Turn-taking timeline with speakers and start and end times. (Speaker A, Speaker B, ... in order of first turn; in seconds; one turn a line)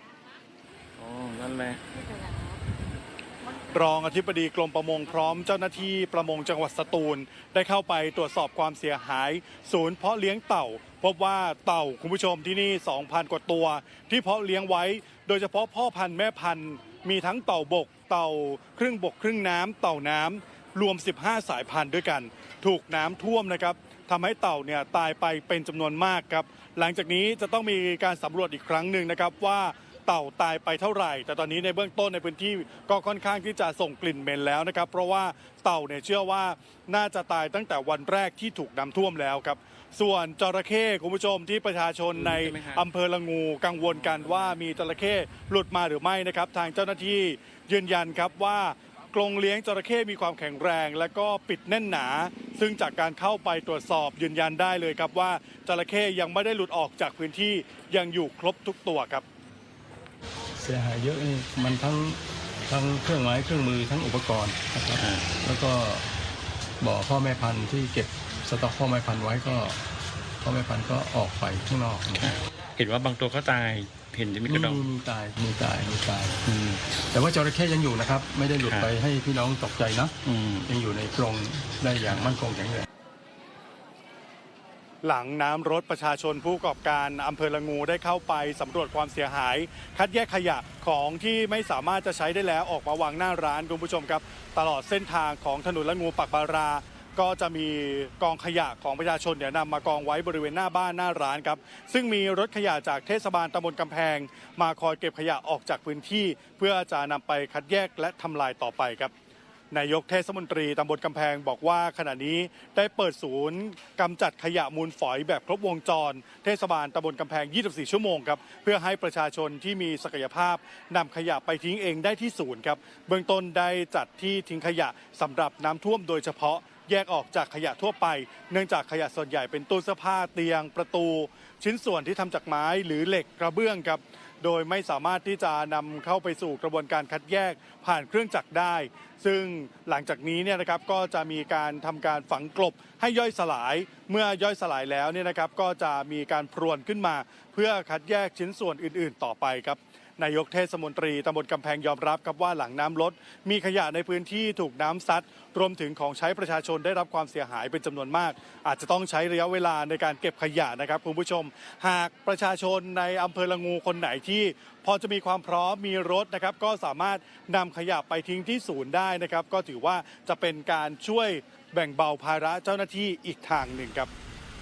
Speaker A: 1.0-1.8
Speaker B: 3.7-59.2
Speaker A: 42.1-42.8
Speaker A: 43.9-44.5
Speaker C: 60.6-66.0
Speaker A: 65.0-65.3
Speaker C: 66.8-69.8
Speaker C: 70.4-72.3
Speaker A: 72.2-74.9
Speaker C: 74.4-76.4
Speaker A: 76.4-76.9
Speaker C: 77.0-82.8
Speaker A: 80.2-80.7
Speaker B: 85.0-109.1
Speaker B: 109.7-174.1